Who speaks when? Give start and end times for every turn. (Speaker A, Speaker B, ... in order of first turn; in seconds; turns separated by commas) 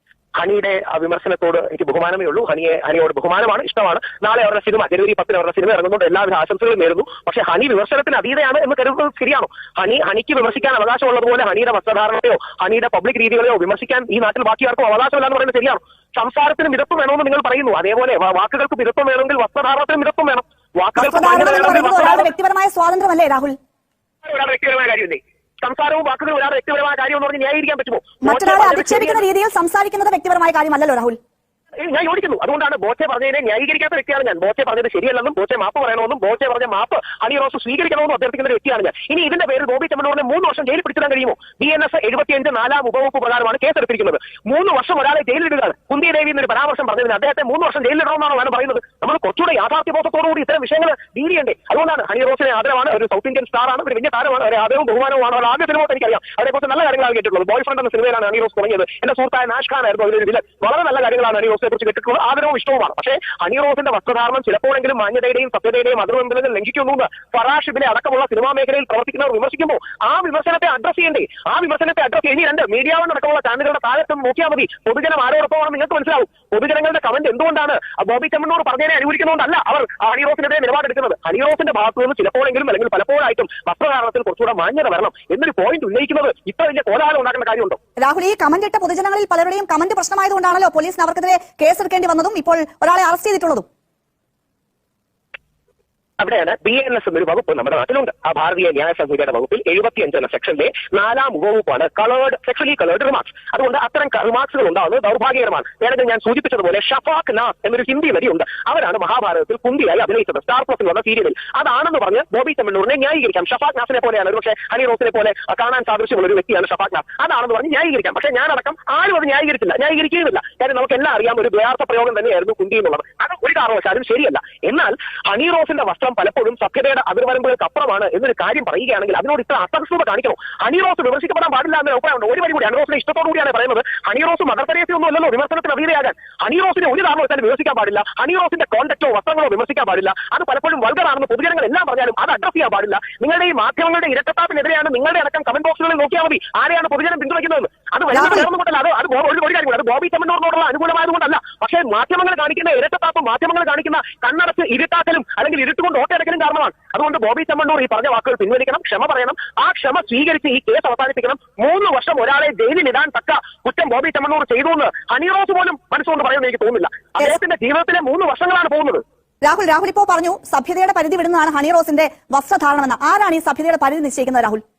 Speaker A: 0.3-22.3, Speaker B: 20.9-23.6, Speaker A: 24.2-29.2, Speaker B: 28.2-31.2, Speaker A: 31.8-87.8, Speaker B: 88.0-93.7, Speaker A: 96.2-169.0, Speaker B: 148.1-148.5, Speaker B: 169.4-174.6